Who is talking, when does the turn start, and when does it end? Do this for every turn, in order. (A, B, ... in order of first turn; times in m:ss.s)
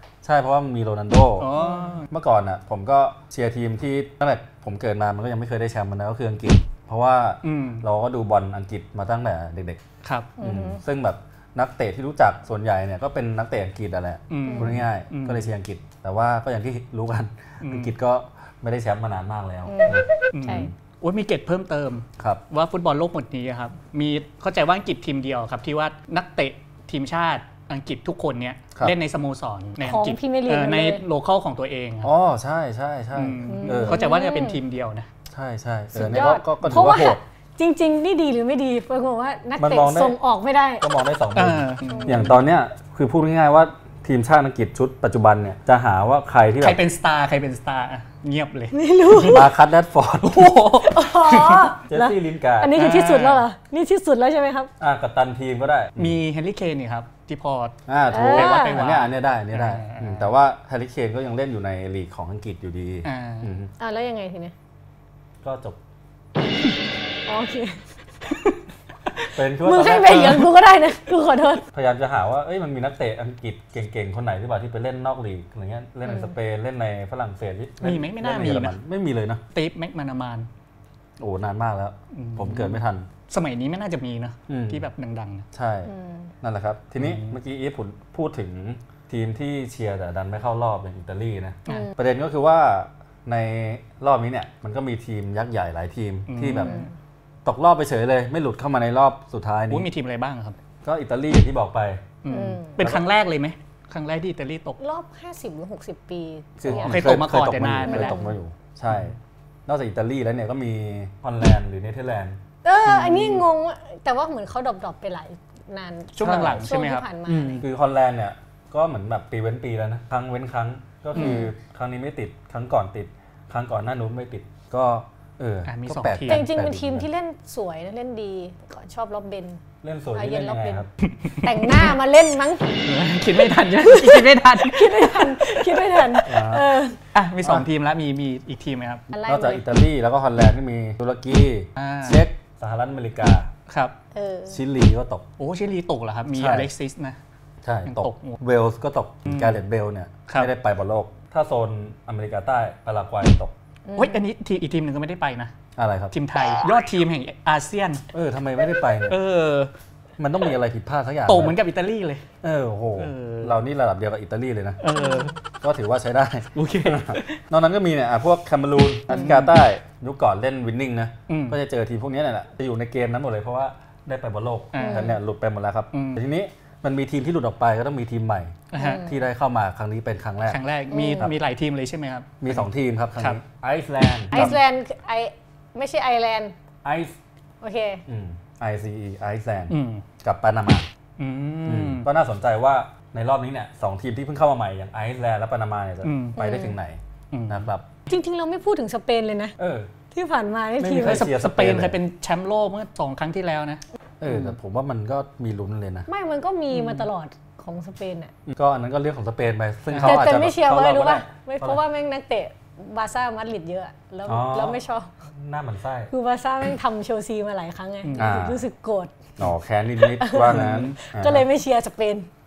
0:00.2-0:01.5 A
0:01.4-0:02.1 B
0:02.1-0:09.8 A
0:07.4-0:07.8 B
0:10.0-0:10.3 B
0:10.4-0:10.8 C
0:10.4-0:20.7 A
0:14.3-0:15.5 B
0:14.4-0:14.8 C
0:17.6-0:17.9 B
0:19.7-0:20.7 C
0:20.3-0:32.1 B
0:29.8-0:31.0 C
0:32.0-0:34.0 A
0:33.1-0:35.1 B
0:33.4-0:34.6 C
0:35.3-0:37.2 A
0:35.9-0:40.8 C
0:39.6-0:40.1 A
0:40.8-0:46.8 A
0:41.3-0:42.4 B
0:41.9-0:42.3 C
0:46.6-0:49.4 B
0:48.7-0:49.5 C
0:49.2-0:50.6 A
0:50.2-0:51.8 B
0:50.8-0:54.7 C
0:51.9-0:52.7 A
0:52.7-0:53.4 B
0:54.8-0:56.2 A
0:56.0-1:00.3 B
0:57.9-1:03.7 A
0:58.1-0:58.8 C
1:03.0-1:03.5 B
1:03.8-1:04.5 C
1:05.4-1:05.8 A
1:07.2-1:07.8 C
1:09.3-1:10.5 A
1:09.6-1:11.6 C
1:11.7-1:19.4 A
1:16.0-1:16.3 C
1:17.8-1:18.8 B
1:19.5-1:20.5 B
1:21.2-1:23.1 A
1:22.1-1:25.4 B
1:24.5-1:24.8 A
1:25.5-1:25.9 A
1:25.8-1:26.3 C
1:26.4-1:36.7 A
1:27.0-1:27.4 B
1:31.7-1:31.9 C
1:36.3-1:36.9 B
1:36.6-1:36.9 C
1:37.4-1:39.9 A
1:39.7-1:40.6 B
1:40.8-1:42.0 A
1:42.2-1:44.8 B
1:42.3-1:42.8 C
1:44.8-1:47.1 C
1:46.6-1:49.2 A
1:46.7-1:48.2 B
1:47.8-1:48.4 C
1:49.7-1:52.4 A
1:52.6-1:57.7 C
1:52.8-1:53.4 B
1:56.1-1:57.0 B
1:56.2-1:56.6 A
1:57.3-2:07.1 A
2:01.1-2:01.4 B
2:01.2-2:01.5 C
2:05.6-2:06.5 B
2:06.3-2:09.6 C
2:09.8-2:10.9 A
2:10.1-2:12.8 C
2:11.0-2:11.9 B
2:12.8-2:19.0 B
2:13.9-2:17.0 C
2:16.2-2:16.7 A
2:19.1-2:19.7 C
2:19.2-2:23.5 A
2:21.8-2:22.2 B
2:23.7-2:23.9 B
2:24.1-2:24.6 C
2:24.5-2:25.2 A
2:25.4-2:27.2 B
2:26.3-2:26.7 A
2:27.6-2:33.5 A
2:27.8-2:28.4 B
2:29.2-2:29.6 B
2:33.8-2:34.2 C
2:34.0-2:35.5 B
2:35.8-2:36.1 A
2:36.1-2:38.0 B
2:38.1-2:39.2 A
2:39.1-2:39.7 B
2:40.2-2:41.6 A
2:41.2-2:42.2 B
2:42.4-2:44.8 A
2:43.0-2:43.6 B
2:44.8-2:45.4 B
2:45.0-2:45.3 C
2:45.6-3:00.6 A
2:46.5-2:47.4 B
2:49.1-2:49.5 B
2:51.3-2:51.6 B
2:54.7-2:55.2 B
2:54.8-2:55.2 C
2:55.9-2:56.2 B
2:58.7-2:59.0 B
2:58.7-2:59.3 C
3:00.4-3:03.4 B
3:00.9-3:01.3 C
3:02.4-3:04.6 A
3:04.3-3:06.5 C
3:06.8-3:07.2 A
3:07.6-3:08.0 C
3:08.1-3:10.9 A
3:09.7-3:10.0 B
3:11.2-3:12.1 B
3:11.6-3:17.9 A
3:16.0-3:16.4 B
3:16.4-3:16.8 C
3:17.3-3:17.7 B
3:18.1-3:19.6 C
3:19.6-3:19.9 A
3:20.1-3:21.3 C
3:20.8-3:22.0 A
3:21.0-3:23.8 B
3:24.2-3:26.1 A
3:26.1-3:28.3 C
3:26.7-3:27.1 B
3:28.5-3:31.8 A
3:29.9-3:30.3 B
3:30.0-3:35.1 C
3:34.3-3:36.1 A
3:36.1-3:39.1 C
3:38.0-3:38.3 B
3:38.2-3:38.6 A
3:39.4-3:41.4 A
3:40.0-3:42.3 C
3:40.4-3:41.0 B